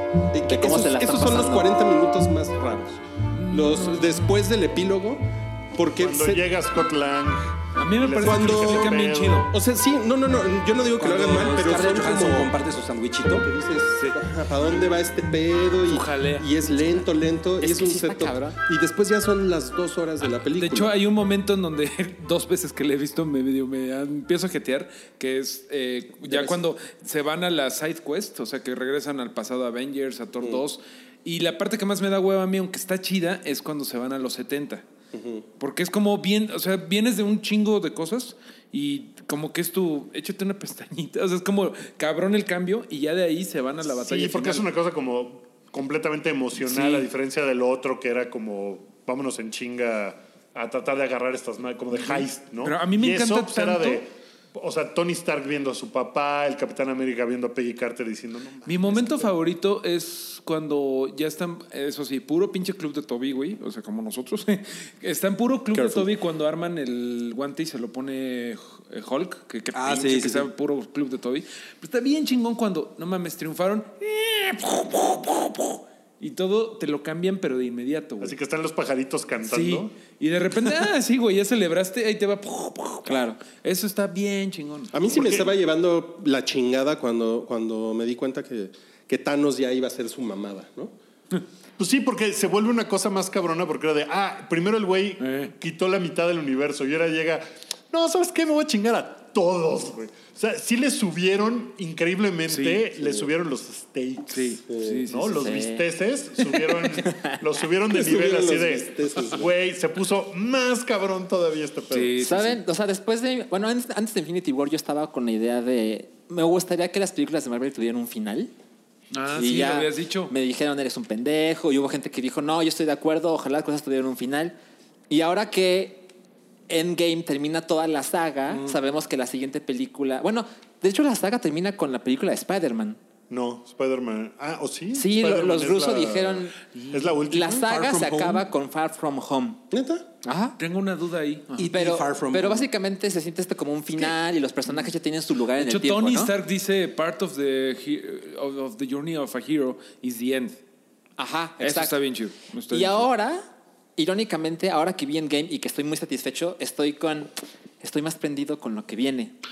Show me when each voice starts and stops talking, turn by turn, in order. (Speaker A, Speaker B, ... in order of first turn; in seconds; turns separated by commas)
Speaker A: 0.3-6.5, Speaker B: 0.5-1.8, Speaker C: 3.3-4.3, Speaker D: 6.0-9.5, Speaker C: 7.8-9.5, Speaker A: 8.2-12.6, Speaker E: 11.0-13.5, Speaker A: 13.3-20.9, Speaker C: 13.9-14.2, Speaker C: 15.9-16.5, Speaker B: 17.6-18.6, Speaker C: 20.2-34.8, Speaker A: 26.2-26.6, Speaker A: 35.1-35.5, Speaker C: 35.6-44.7, Speaker D: 44.0-59.3, Speaker C: 46.6-47.1, Speaker C: 51.9-54.0, Speaker C: 58.7-78.3, Speaker A: 65.7-66.1, Speaker E: 69.7-70.5, Speaker D: 78.2-80.0, Speaker C: 79.4-84.9, Speaker B: 83.1-83.4, Speaker A: 84.9-90.9, Speaker D: 85.1-85.5, Speaker D: 91.8-112.1, Speaker C: 95.2-95.5, Speaker C: 102.5-102.9, Speaker A: 103.0-103.3, Speaker C: 104.3-105.5, Speaker A: 104.7-105.0, Speaker B: 105.4-105.8, Speaker B: 106.5-107.4, Speaker A: 107.9-109.5, Speaker C: 111.9-112.6, Speaker B: 112.2-118.5, Speaker C: 119.1-120.3, Speaker B: 119.3-124.5, Speaker B: 125.1-126.1, Speaker B: 126.7-133.0, Speaker D: 133.3-137.6, Speaker B: 134.9-136.6, Speaker B: 137.3-139.6, Speaker E: 137.6-138.5, Speaker A: 139.7-140.1, Speaker B: 140.2-140.6, Speaker C: 140.6-141.7, Speaker E: 141.6-142.7, Speaker B: 141.7-146.3, Speaker C: 145.6-150.6, Speaker B: 151.2-152.0, Speaker C: 151.6-153.1, Speaker B: 152.7-153.4, Speaker B: 154.0-159.3